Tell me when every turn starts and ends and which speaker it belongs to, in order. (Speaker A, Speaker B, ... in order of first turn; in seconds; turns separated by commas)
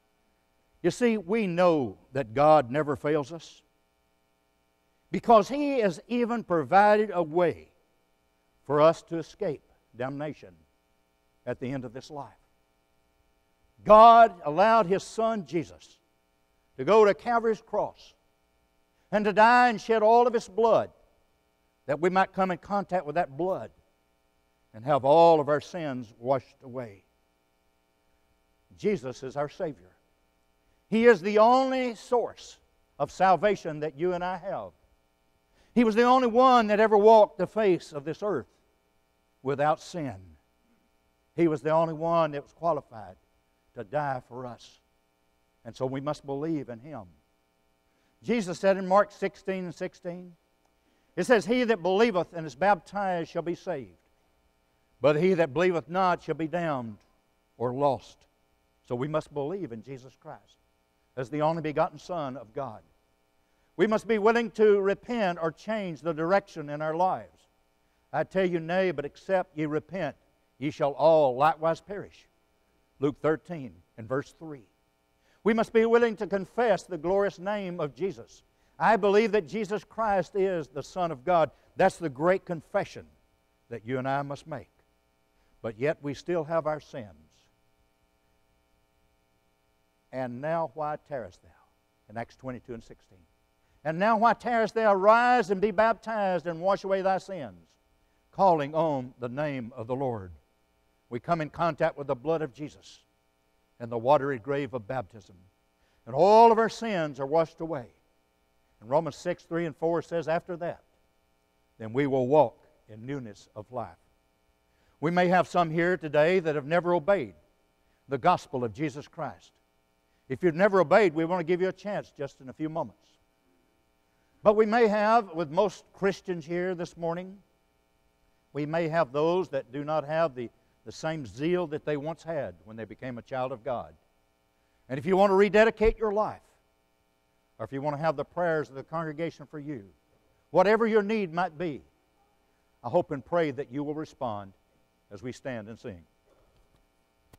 Speaker A: 0.8-3.6, Speaker A: 5.1-7.7, Speaker A: 8.6-10.6, Speaker A: 11.4-12.4, Speaker A: 13.8-16.0, Speaker A: 16.8-18.1, Speaker A: 19.1-20.9, Speaker A: 21.9-23.7, Speaker A: 24.7-27.0, Speaker A: 28.7-29.9, Speaker A: 30.9-34.7, Speaker A: 35.7-38.5, Speaker A: 39.4-40.4, Speaker A: 41.3-43.2, Speaker A: 43.7-44.8, Speaker A: 45.6-47.1, Speaker A: 48.2-50.4, Speaker A: 51.1-54.0, Speaker A: 55.0-57.0, Speaker A: 57.6-58.2, Speaker A: 58.8-60.6, Speaker A: 61.1-62.8, Speaker A: 63.8-67.4, Speaker A: 68.1-72.3, Speaker A: 73.0-74.7, Speaker A: 75.4-83.1, Speaker A: 83.7-84.7, Speaker A: 85.6-87.3, Speaker A: 90.1-93.2, Speaker A: 93.8-97.7, Speaker A: 98.3-100.3, Speaker A: 101.1-103.0, Speaker A: 103.8-105.4, Speaker A: 106.0-108.0, Speaker A: 108.8-110.8, Speaker A: 111.8-114.0, Speaker A: 115.0-117.4, Speaker A: 118.1-119.5, Speaker A: 120.3-123.2, Speaker A: 124.4-127.4, Speaker A: 128.5-134.0, Speaker A: 134.9-136.5, Speaker A: 137.6-139.9, Speaker A: 140.5-141.9, Speaker A: 142.8-144.6, Speaker A: 145.1-146.1